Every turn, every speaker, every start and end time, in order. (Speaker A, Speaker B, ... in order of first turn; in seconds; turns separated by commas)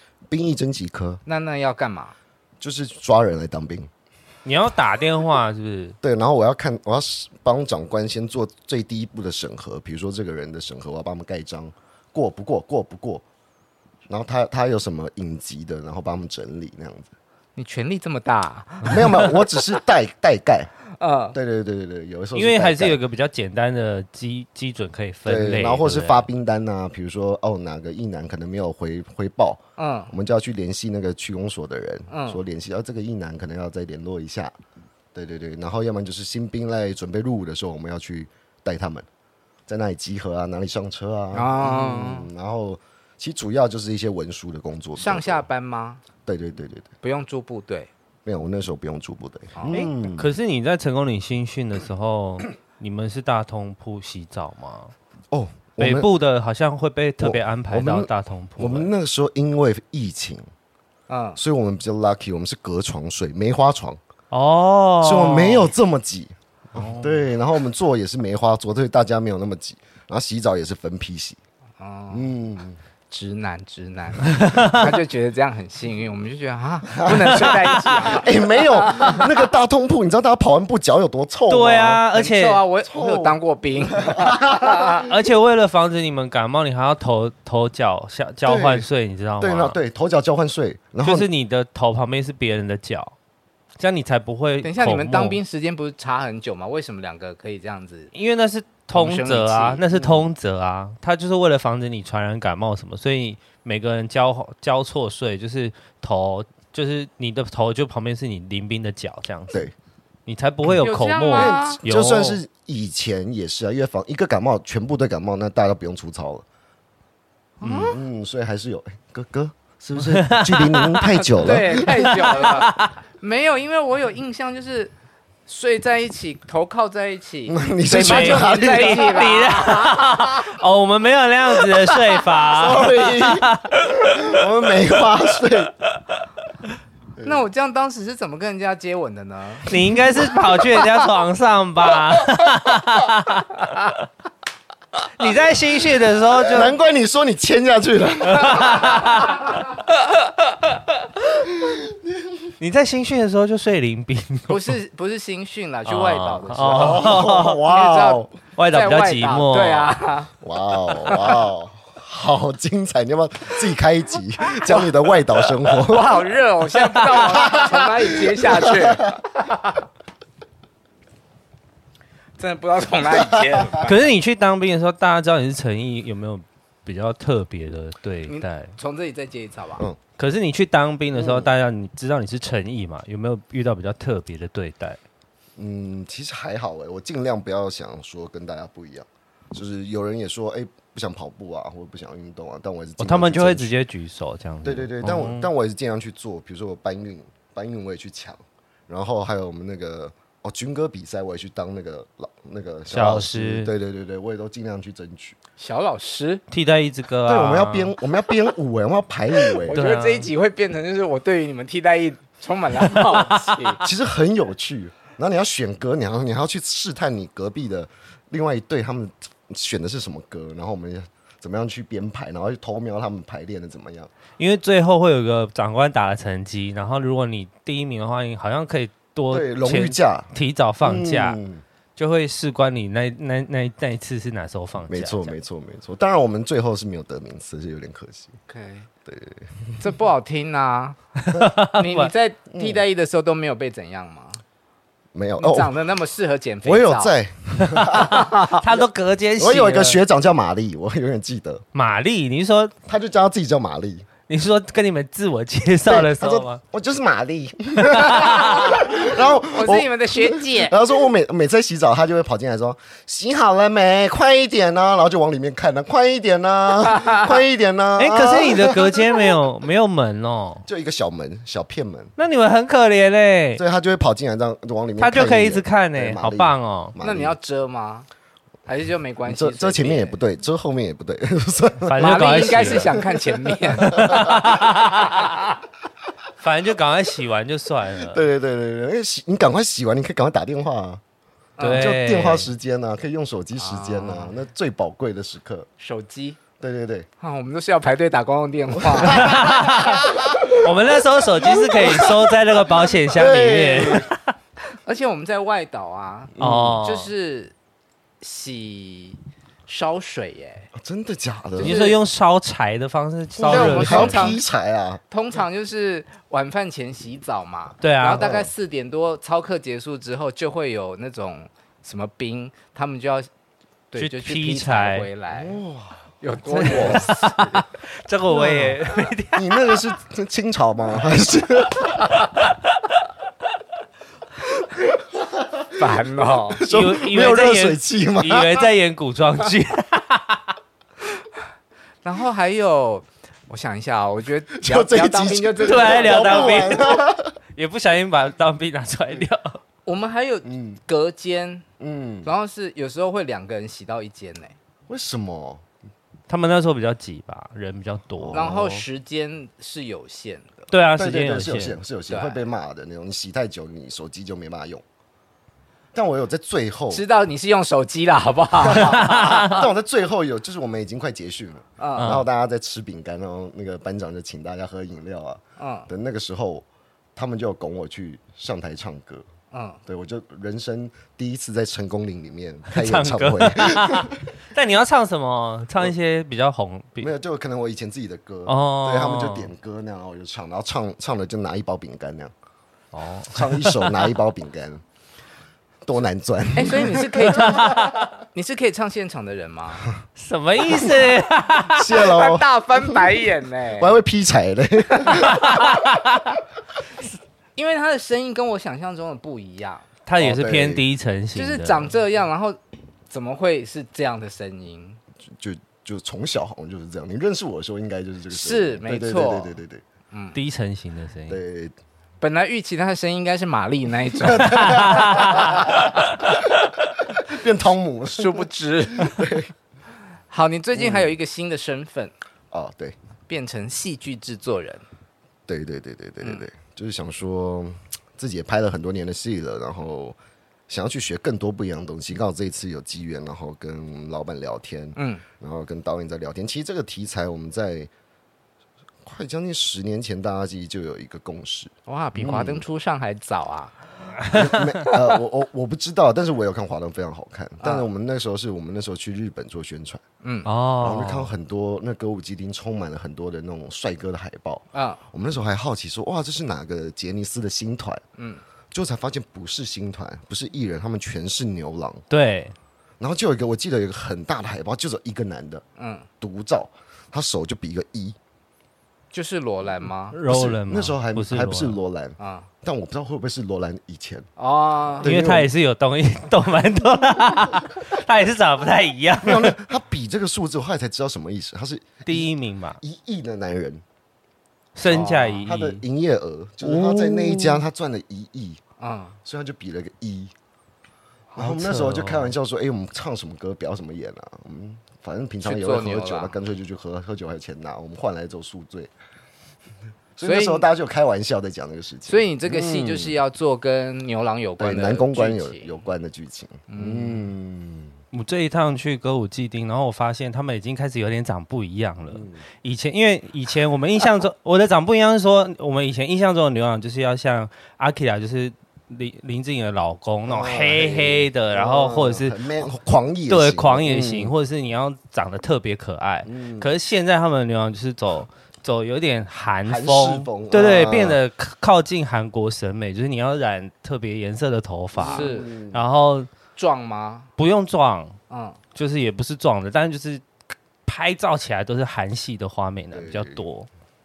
Speaker A: 0.3-1.2, Speaker B: 1.3-2.1, Speaker A: 2.6-3.9, Speaker C: 4.5-6.0, Speaker A: 6.0-13.2, Speaker A: 14.1-17.1, Speaker B: 17.6-19.3, Speaker A: 18.9-20.7, Speaker B: 21.0-21.4, Speaker A: 21.3-23.0, Speaker C: 22.3-26.3, Speaker A: 25.3-34.5, Speaker B: 29.8-30.1, Speaker B: 32.1-32.4, Speaker A: 35.1-39.1, Speaker A: 39.7-45.4, Speaker B: 41.3-42.3, Speaker B: 45.0-46.0, Speaker A: 46.3-46.9, Speaker B: 47.0-47.9, Speaker A: 48.3-50.3, Speaker C: 49.7-54.9, Speaker A: 55.3-56.1, Speaker C: 55.8-58.9, Speaker A: 57.2-60.5, Speaker B: 61.1-61.4, Speaker A: 61.4-64.0, Speaker C: 64.3-65.7, Speaker A: 65.0-71.4, Speaker C: 66.8-67.2, Speaker B: 71.8-72.3, Speaker A: 72.1-72.8, Speaker B: 73.1-79.4, Speaker C: 74.3-75.0, Speaker A: 76.9-82.0, Speaker C: 77.3-78.2, Speaker C: 81.5-82.6, Speaker B: 82.1-85.0, Speaker A: 82.8-83.4, Speaker A: 83.9-85.0, Speaker C: 85.0-89.8, Speaker A: 88.5-88.9, Speaker A: 89.4-91.3, Speaker C: 91.0-93.1, Speaker C: 93.8-95.4, Speaker B: 94.6-98.1, Speaker C: 98.1-109.7, Speaker B: 98.9-99.8, Speaker A: 99.9-100.3, Speaker C: 110.3-112.4, Speaker B: 110.8-111.8, Speaker A: 111.3-116.5, Speaker B: 117.6-118.0, Speaker C: 117.6-118.0, Speaker A: 117.9-122.4, Speaker C: 120.0-123.0, Speaker B: 121.3-124.9, Speaker B: 125.5-130.4, Speaker A: 127.5-129.2, Speaker C: 127.9-134.4, Speaker A: 132.5-135.7, Speaker A: 137.2-137.4, Speaker B: 137.2-139.7, Speaker C: 139.7-144.0, Speaker C: 145.2-146.7, Speaker A: 146.5-149.2, Speaker C: 148.3-149.5, Speaker A: 151.6-151.9, Speaker C: 152.6-154.8, Speaker B: 154.5-160.3, Speaker C: 155.9-157.6, Speaker A: 156.7-158.3, Speaker C: 158.6-160.0, Speaker A: 160.4-166.2, Speaker B: 161.0-161.4, Speaker B: 165.7-169.8, Speaker C: 167.0-167.6, Speaker A: 167.5-169.1, Speaker B: 172.4-174.1, Speaker C: 173.8-178.7, Speaker B: 178.3-179.8, Speaker C: 180.2-185.0, Speaker A: 181.2-181.5, Speaker A: 185.6-193.7, Speaker C: 193.0-195.5, Speaker A: 194.6-205.4, Speaker C: 202.9-203.7, Speaker B: 205.6-206.4, Speaker C: 206.5-207.9, Speaker A: 207.3-209.8, Speaker B: 209.6-213.8, Speaker C: 209.7-210.3, Speaker C: 212.9-213.8, Speaker A: 213.8-224.1, Speaker C: 224.4-231.4, Speaker A: 229.3-231.6, Speaker C: 232.0-235.3, Speaker A: 234.9-238.4, Speaker B: 238.5-238.9, Speaker A: 239.1-239.8, Speaker B: 239.8-241.0, Speaker C: 241.2-242.1, Speaker B: 241.6-244.4, Speaker A: 242.5-242.8, Speaker A: 245.1-245.7, Speaker B: 245.4-247.1, Speaker A: 246.6-248.6, Speaker C: 247.8-250.0, Speaker B: 248.0-248.4, Speaker A: 249.4-251.6, Speaker C: 251.7-252.7, Speaker A: 252.9-254.1, Speaker C: 254.3-256.6, Speaker A: 255.8-269.2, Speaker C: 257.8-258.8, Speaker B: 259.4-260.8, Speaker C: 268.0-270.7, Speaker A: 270.7-272.1, Speaker C: 272.2-273.6, Speaker A: 273.6-277.4, Speaker C: 275.0-277.0, Speaker B: 277.0-278.1, Speaker B: 278.7-280.2, Speaker A: 279.3-283.1, Speaker C: 281.9-283.0, Speaker B: 282.0-285.4, Speaker C: 283.8-285.2, Speaker A: 283.8-284.4, Speaker C: 286.4-288.3, Speaker A: 288.0-291.0, Speaker B: 291.6-291.9, Speaker C: 291.6-292.5, Speaker A: 291.7-295.7, Speaker B: 293.6-294.4, Speaker B: 295.8-296.4, Speaker A: 296.6-297.1, Speaker B: 297.2-300.1, Speaker C: 299.0-304.3, Speaker A: 299.1-299.4, Speaker A: 300.3-300.6, Speaker A: 301.4-302.1, Speaker A: 303.1-304.1, Speaker B: 304.8-307.5, Speaker A: 306.4-306.8, Speaker C: 306.4-307.1, Speaker B: 308.2-310.7, Speaker A: 310.8-311.8, Speaker B: 311.6-312.0, Speaker C: 311.6-314.4, Speaker A: 313.4-315.0, Speaker B: 313.5-314.4, Speaker B: 315.1-323.3, Speaker C: 317.8-318.3, Speaker A: 318.2-318.5, Speaker B: 323.9-325.6, Speaker C: 324.0-325.1, Speaker A: 325.3-326.0, Speaker B: 326.2-327.6, Speaker C: 326.5-329.9, Speaker A: 326.6-327.2, Speaker A: 329.3-332.1, Speaker A: 334.9-338.6, Speaker B: 335.8-336.6, Speaker C: 336.7-340.5, Speaker B: 342.0-347.0, Speaker A: 344.5-347.3, Speaker C: 345.6-349.6, Speaker B: 349.9-351.7, Speaker A: 350.4-350.8, Speaker A: 351.8-352.3, Speaker B: 352.2-354.6, Speaker A: 354.9-355.6, Speaker C: 356.3-358.6, Speaker A: 358.2-358.9, Speaker B: 358.3-360.5, Speaker C: 360.7-361.8, Speaker A: 360.9-364.8, Speaker B: 362.1-362.4, Speaker A: 365.9-367.0, Speaker B: 366.9-369.4, Speaker A: 368.6-379.3, Speaker C: 368.8-369.7, Speaker B: 371.8-372.2, Speaker C: 372.0-372.3, Speaker B: 375.6-375.9, Speaker B: 379.5-379.8, Speaker A: 379.9-384.3, Speaker C: 382.7-387.1, Speaker A: 387.0-392.3, Speaker C: 388.5-389.5, Speaker C: 392.9-394.1, Speaker A: 393.3-394.8, Speaker A: 395.9-397.6, Speaker B: 396.6-399.9, Speaker C: 397.3-398.1, Speaker C: 400.2-402.0, Speaker A: 401.7-402.9, Speaker B: 402.0-403.9, Speaker A: 403.8-405.7, Speaker B: 405.0-405.6, Speaker C: 405.3-406.3, Speaker B: 407.6-409.9, Speaker C: 410.1-411.9, Speaker A: 410.2-410.8, Speaker B: 411.4-412.6, Speaker B: 413.1-415.0, Speaker A: 415.3-419.8, Speaker B: 418.3-419.6, Speaker B: 420.1-420.4, Speaker C: 420.3-421.4, Speaker A: 421.3-421.8, Speaker B: 422.2-425.8, Speaker A: 424.2-429.5, Speaker C: 424.5-425.7, Speaker B: 428.2-429.3, Speaker B: 430.3-432.1, Speaker A: 430.7-431.2, Speaker A: 432.5-433.0, Speaker B: 433.3-434.9, Speaker A: 435.5-440.2, Speaker A: 440.7-447.9, Speaker B: 445.0-445.2, Speaker A: 449.0-452.6, Speaker B: 451.9-454.1, Speaker C: 454.2-454.6, Speaker A: 454.3-460.0, Speaker B: 457.6-457.9, Speaker B: 460.2-460.5, Speaker C: 460.4-461.3, Speaker A: 460.8-468.0, Speaker B: 464.7-465.0, Speaker B: 468.2-468.4, Speaker A: 468.7-472.0, Speaker C: 472.1-472.6, Speaker A: 473.0-475.6, Speaker B: 475.8-476.1, Speaker A: 476.2-478.2, Speaker B: 479.1-480.2, Speaker C: 480.1-481.8, Speaker A: 480.2-484.3, Speaker B: 482.2-482.5, Speaker B: 484.4-485.1, Speaker A: 485.0-485.5, Speaker C: 485.0-489.6, Speaker A: 489.2-493.8, Speaker C: 492.1-492.8, Speaker C: 494.8-495.8, Speaker B: 494.9-495.5, Speaker A: 494.9-498.6, Speaker C: 496.6-497.6, Speaker B: 498.8-499.2, Speaker A: 499.2-500.3, Speaker C: 501.4-502.3, Speaker A: 501.4-508.9, Speaker B: 505.4-506.4, Speaker A: 510.2-513.2, Speaker B: 510.2-510.7, Speaker B: 512.1-515.8, Speaker A: 514.6-518.0, Speaker B: 516.7-517.3, Speaker C: 518.1-532.7, Speaker A: 522.1-522.4, Speaker A: 530.3-534.3, Speaker C: 533.3-546.3, Speaker A: 536.2-536.7, Speaker A: 539.7-541.2, Speaker A: 545.0-545.8, Speaker B: 545.0-545.5, Speaker B: 546.6-547.3, Speaker C: 547.4-548.2, Speaker B: 548.3-548.6, Speaker C: 548.8-550.3, Speaker C: 550.9-553.7, Speaker A: 552.9-553.5